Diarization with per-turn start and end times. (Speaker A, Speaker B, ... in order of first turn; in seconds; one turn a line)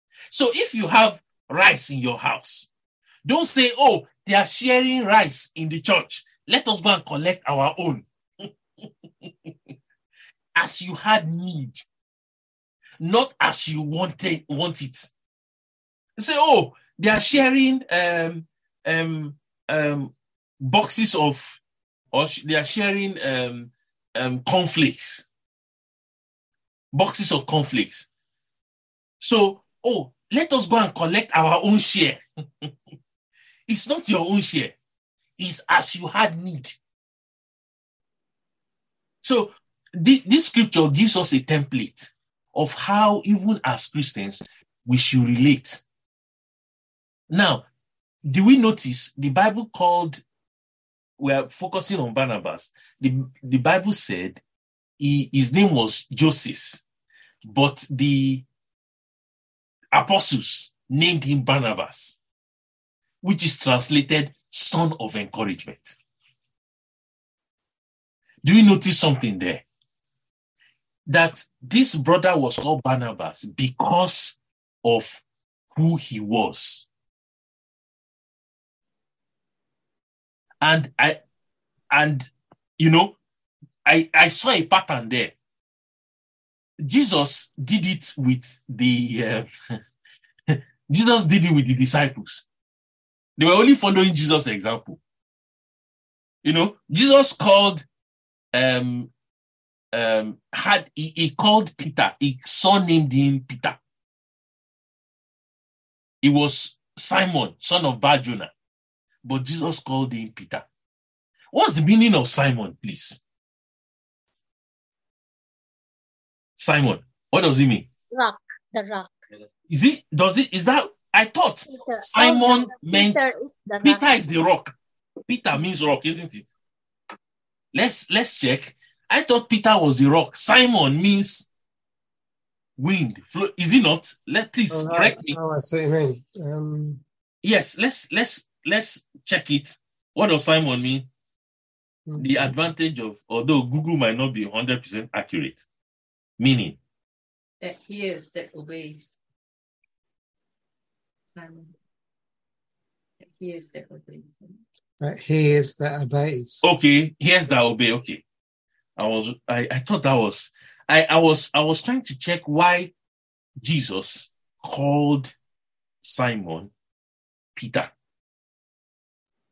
Speaker A: 0.3-2.7
Speaker A: 3.2-8.5
Speaker A: 10.6-11.8
Speaker A: 13.0-15.1
Speaker A: 16.2-21.6
Speaker A: 22.1-25.2
Speaker A: 26.9-28.1
Speaker A: 29.2-32.7
Speaker A: 33.7-34.8
Speaker A: 35.4-36.8
Speaker A: 39.2-45.8
Speaker A: 47.3-47.6
Speaker A: 48.2-50.2
Speaker A: 51.2-54.4
Speaker A: 55.0-56.8
Speaker A: 57.4-58.4
Speaker A: 59.9-62.2
Speaker A: 63.2-66.0
Speaker A: 68.4-69.6
Speaker A: 71.1-75.2
Speaker A: 75.8-76.8
Speaker A: 80.6-81.2
Speaker A: 81.9-83.1
Speaker A: 83.8-85.3
Speaker A: 86.8-89.5
Speaker A: 90.5-92.5
Speaker A: 93.4-95.0
Speaker A: 96.4-97.8
Speaker A: 98.5-99.1
Speaker A: 99.9-103.8
Speaker A: 106.2-108.5
Speaker A: 109.2-110.6
Speaker A: 111.5-113.2
Speaker A: 116.6-117.9
Speaker B: 118.1-119.2
Speaker A: 119.7-124.7
Speaker B: 121.7-124.0
Speaker A: 125.3-126.5
Speaker A: 127.7-131.5
Speaker A: 132.8-135.4
Speaker C: 134.7-137.0
Speaker A: 137.4-141.1
Speaker C: 142.1-142.5
Speaker A: 142.2-145.6
Speaker A: 146.4-146.8
Speaker D: 147.6-149.2
Speaker D: 151.3-151.8
Speaker D: 153.2-154.6
Speaker C: 155.0-156.6
Speaker A: 156.6-158.2
Speaker A: 159.0-162.9
Speaker A: 163.6-165.3
Speaker A: 166.0-166.7
Speaker A: 167.6-167.9